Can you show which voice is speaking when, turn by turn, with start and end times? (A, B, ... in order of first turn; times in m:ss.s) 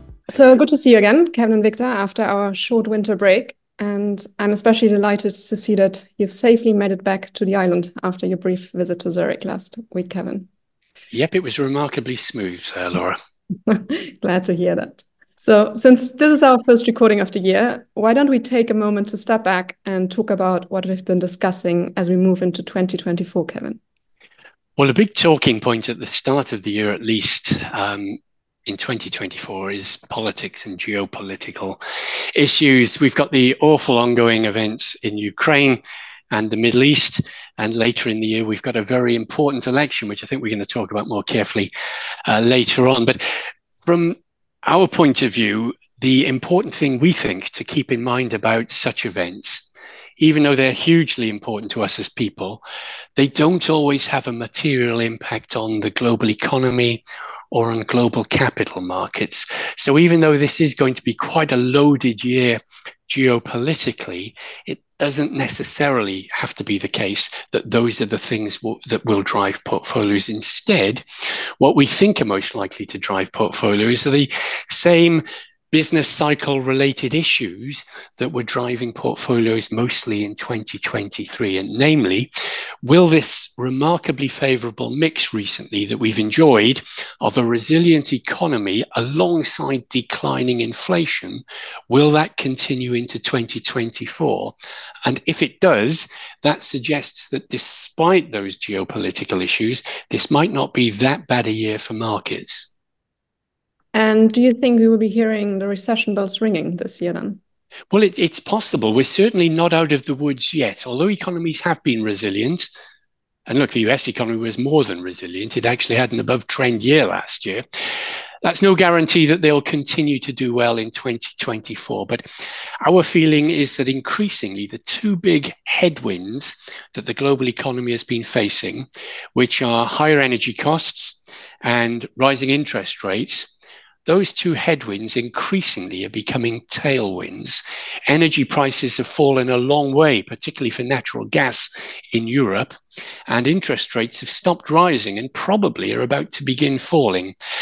0:00.3-0:10.5 A
0:11.1-0:13.2 B
0:13.7-0:23.8 A
0:24.8-0:31.8 B
0:32.3-0:35.8 B
0:36.3-0:41.7 B
0:42.2-0:43.2 B
0:43.8-0:49.7 B
0:50.2-0:52.6 B
0:53.2-0:57.0 B
0:57.5-1:11.0 B
1:11.6-1:22.3 B
1:22.8-1:34.5 B
1:35.0-1:42.7 B
1:43.9-1:47.4 A
1:47.9-1:52.7 B
1:53.5-1:57.6 B
1:58.4-2:02.2 B
2:02.8-2:13.5 B
2:14.0-2:22.7 B
2:23.3-2:27.3 B